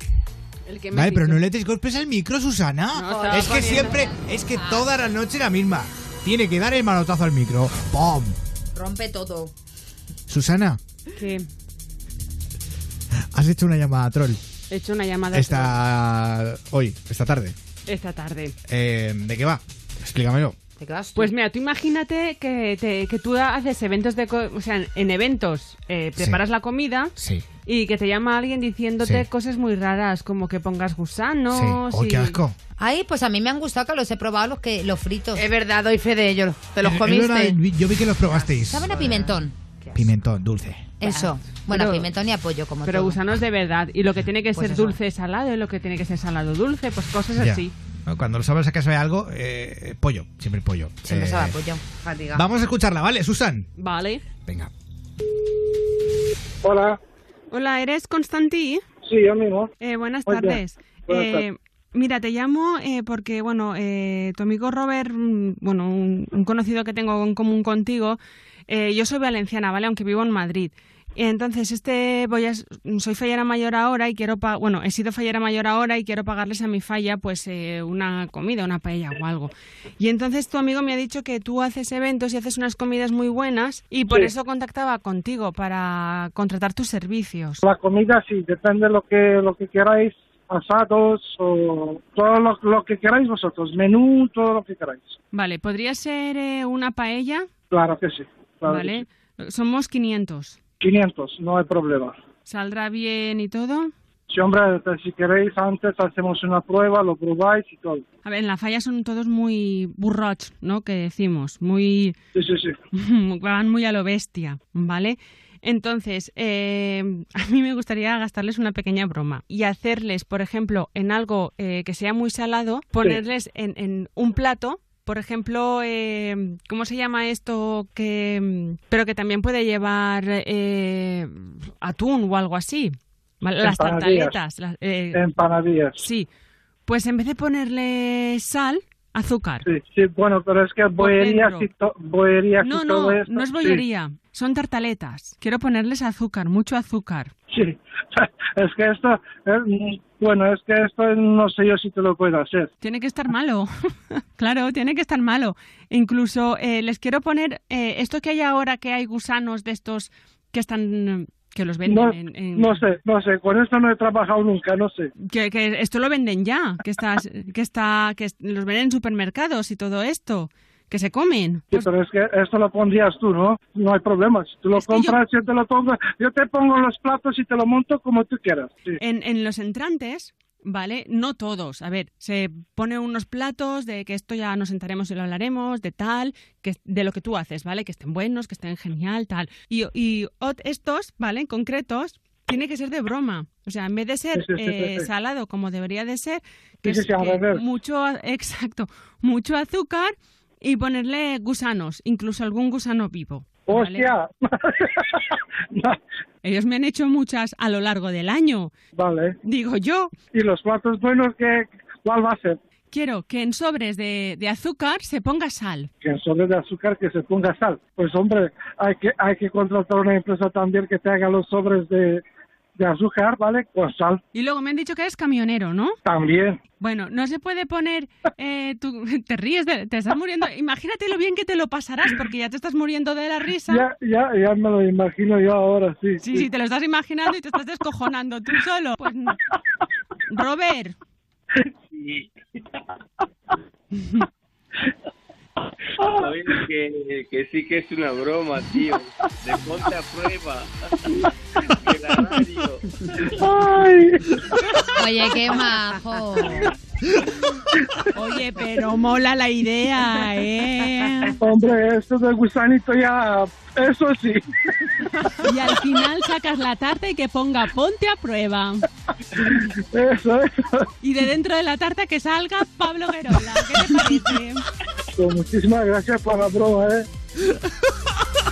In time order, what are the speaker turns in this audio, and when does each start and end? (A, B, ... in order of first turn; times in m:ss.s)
0:00.6-0:01.4 A
0:00.9-0:08.4 B
0:02.9-0:04.1 A
0:03.3-0:04.9 C
0:08.8-0:09.5 C
0:10.3-0:10.8 B
0:11.2-0:11.5 A
0:13.3-0:14.4 B
0:14.7-0:15.8 A
0:15.3-0:17.6 B
0:17.9-0:18.6 A
0:18.7-0:20.6 B
0:20.8-0:21.3 C
0:21.2-0:27.1 A
0:27.2-0:27.4 B
0:27.7-0:32.4 A
0:31.5-0:32.6 B
0:32.8-0:35.5 C
0:35.4-0:37.6 D
0:36.8-0:39.0 B
0:38.6-0:39.6 C
0:39.9-0:41.0 B
0:41.0-0:43.2 C
0:41.0-0:42.1 A
0:42.8-0:47.7 A
0:44.5-0:45.0 C
0:47.3-0:51.6 B
0:51.0-0:51.8 C
0:52.3-0:53.7 B
0:53.8-0:54.2 A
0:56.6-0:57.0 E
0:57.5-0:58.8 A
0:59.0-0:59.7 E
0:59.8-1:27.6 A
1:00.3-1:01.4 E
1:27.6-1:35.2 E
1:35.3-1:37.5 A
1:37.7-1:39.0 E
1:38.7-1:40.6 A
1:40.8-1:42.2 E
1:42.5-1:43.9 A
1:44.3-1:48.0 E
1:48.2-1:52.2 A
1:52.4-1:52.8 E
1:52.9-2:15.2 A
2:13.6-2:14.4 E
2:15.1-2:16.0 E
2:16.0-2:16.3 A
2:16.9-2:19.7 A
2:19.6-2:23.8 E
2:21.0-2:21.7 A
2:22.6-2:27.3 A
2:27.5-2:32.7 E
2:32.8-2:42.8 A
2:41.9-2:45.1 E
2:45.2-2:51.9 A
2:51.7-2:59.0 E
2:54.7-2:55.2 A
2:59.0-3:24.1 A
3:14.4-3:15.1 E
3:16.8-3:17.6 E
3:23.7-3:26.0 E
3:26.4-3:28.7 A
3:29.0-3:29.4 E
3:29.4-3:30.1 A
3:30.3-3:32.6 E
3:32.9-3:35.9 A
3:36.0-3:42.2 E
3:42.8-3:44.2 E
3:44.3-3:46.0 A
3:46.0-3:46.6 E
3:46.8-3:53.8 A
3:53.7-3:56.5 E
3:56.2-3:59.4 A
4:00.3-4:01.0 A
4:01.9-4:02.3 F
4:03.9-4:04.2 A
4:06.0-4:06.6 E
4:06.2-4:10.7 F
4:11.2-4:12.3 E
4:11.8-4:12.8 F
4:13.1-4:14.8 E
4:15.0-4:16.7 C
4:18.2-4:21.4 A
4:21.4-4:24.8 E
4:25.4-4:28.9 A
4:29.3-4:30.9 E
4:31.0-4:34.7 A
4:35.1-4:37.1 E